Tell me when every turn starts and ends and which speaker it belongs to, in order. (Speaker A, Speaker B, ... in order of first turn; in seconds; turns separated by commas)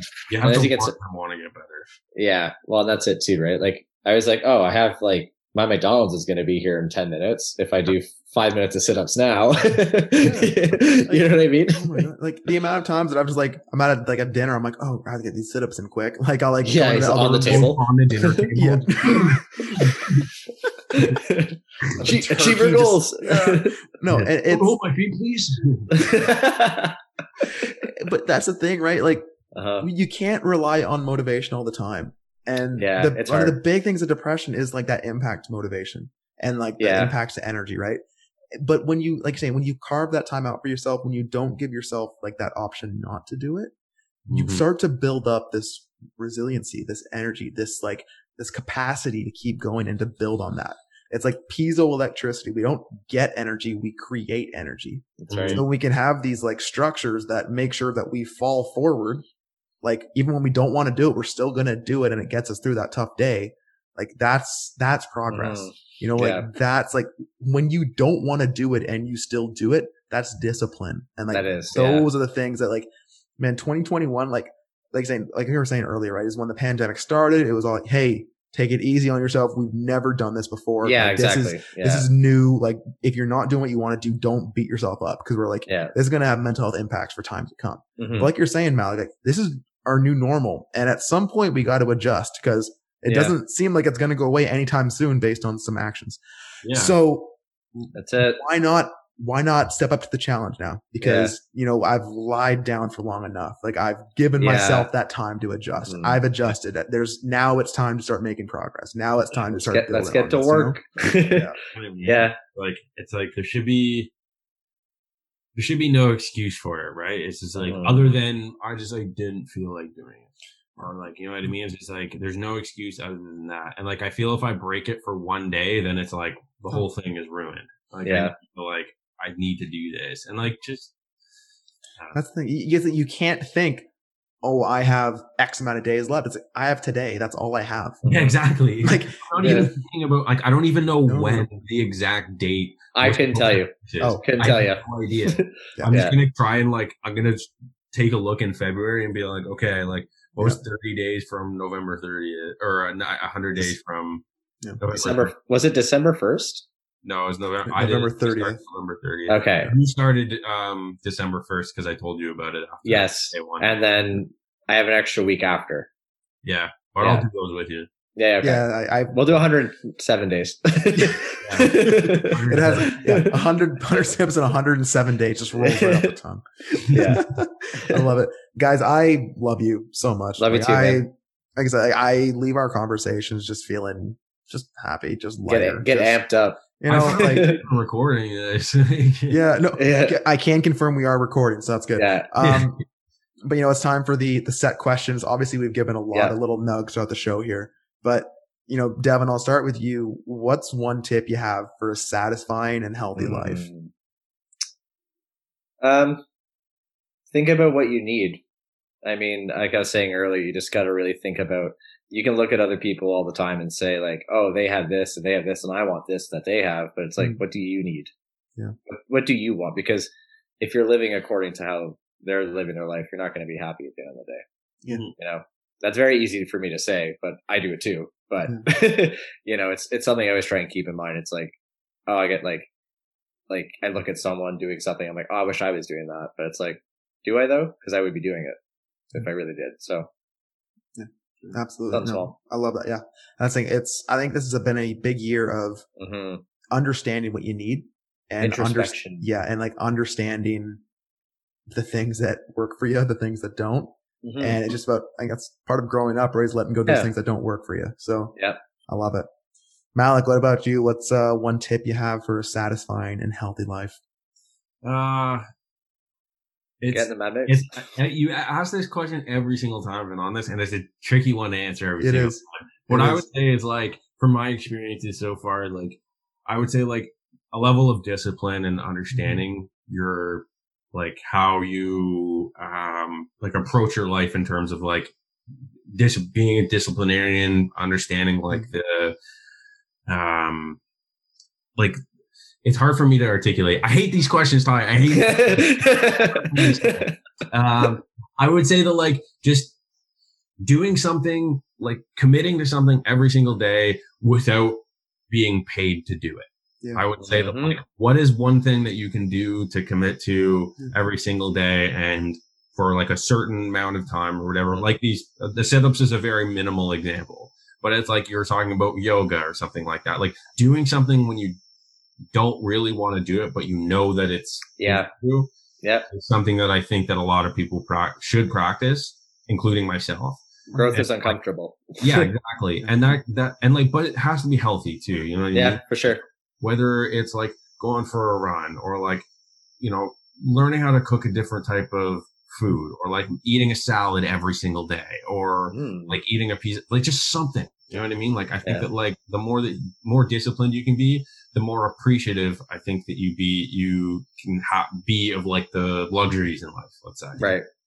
Speaker A: 0.3-1.9, Speaker B: 0.4-0.9, Speaker B: 2.1-12.0, Speaker C: 10.2-17.8, Speaker B: 16.6-18.4, Speaker A: 17.0-20.3, Speaker C: 18.5-19.9, Speaker B: 20.9-23.8, Speaker C: 22.0-24.8, Speaker A: 24.1-26.0, Speaker B: 25.9-27.6, Speaker C: 27.8-29.2, Speaker B: 29.5-29.9, Speaker C: 29.8-38.0, Speaker B: 32.8-33.5, Speaker B: 36.8-37.1, Speaker C: 38.5-43.7, Speaker A: 44.3-44.6, Speaker C: 44.3-59.2, Speaker B: 55.2-55.6, Speaker A: 55.3-55.6, Speaker C: 59.8-110.8, Speaker B: 65.3-66.5, Speaker B: 71.3-72.1, Speaker B: 80.8-82.1, Speaker B: 85.7-85.9, Speaker B: 88.0-88.3, Speaker B: 93.0-93.3, Speaker A: 96.6-96.9, Speaker B: 97.9-98.4, Speaker B: 101.0-101.3, Speaker B: 104.4-104.9, Speaker B: 105.8-106.2, Speaker B: 109.7-111.5, Speaker C: 111.3-111.5, Speaker A: 111.7-114.1, Speaker B: 112.0-112.4, Speaker A: 115.5-130.9, Speaker B: 117.5-118.2, Speaker B: 128.0-128.3, Speaker C: 132.1-133.8, Speaker C: 134.4-138.0, Speaker B: 138.0-138.3, Speaker A: 138.1-154.2, Speaker C: 138.8-139.8, Speaker B: 139.4-139.7, Speaker C: 141.0-141.5, Speaker B: 142.9-146.2, Speaker C: 144.0-144.2, Speaker A: 154.8-155.3, Speaker B: 154.9-156.6, Speaker A: 157.0-163.8, Speaker C: 157.7-158.6, Speaker B: 159.3-159.7, Speaker B: 162.8-165.9, Speaker A: 166.4-167.9, Speaker B: 167.0-167.3, Speaker B: 168.1-173.4, Speaker C: 168.4-169.3, Speaker C: 170.9-186.2, Speaker A: 171.4-173.0, Speaker B: 175.5-176.1, Speaker A: 176.9-177.2, Speaker B: 176.9-178.0, Speaker B: 180.4-181.0, Speaker B: 185.5-187.6, Speaker C: 186.8-187.5, Speaker A: 186.9-189.4, Speaker C: 189.3-192.8, Speaker B: 189.8-190.2, Speaker B: 191.9-192.3, Speaker A: 192.4-192.7, Speaker C: 193.4-203.7, Speaker B: 203.2-203.9, Speaker B: 205.8-206.2, Speaker B: 207.3-208.4, Speaker B: 209.0-218.1, Speaker B: 218.9-224.4, Speaker A: 224.9-225.1, Speaker B: 225.2-231.5, Speaker B: 232.1-232.7, Speaker B: 233.5-238.6, Speaker B: 239.1-240.1, Speaker C: 240.9-245.8, Speaker B: 241.9-242.3, Speaker B: 246.0-246.4, Speaker C: 246.7-250.8, Speaker B: 248.4-249.2, Speaker C: 251.7-258.4, Speaker B: 254.2-254.6, Speaker C: 258.9-259.2, Speaker C: 259.9-264.0, Speaker A: 264.8-265.4, Speaker A: 266.8-285.1, Speaker B: 266.9-267.7, Speaker C: 272.0-273.2, Speaker C: 279.1-279.4, Speaker A: 285.9-289.1, Speaker A: 290.1-290.8, Speaker A: 292.6-299.7, Speaker B: 295.1-297.1, Speaker A: 300.6-321.6, Speaker B: 307.2-307.8, Speaker A: 322.3-325.5, Speaker B: 324.8-325.1, Speaker B: 325.8-326.1, Speaker A: 326.1-331.4, Speaker C: 330.7-331.0, Speaker B: 330.7-332.3, Speaker A: 332.0-335.8, Speaker B: 335.5-336.2, Speaker A: 336.6-339.2, Speaker A: 339.8-357.5, Speaker B: 345.7-346.2, Speaker B: 357.4-357.6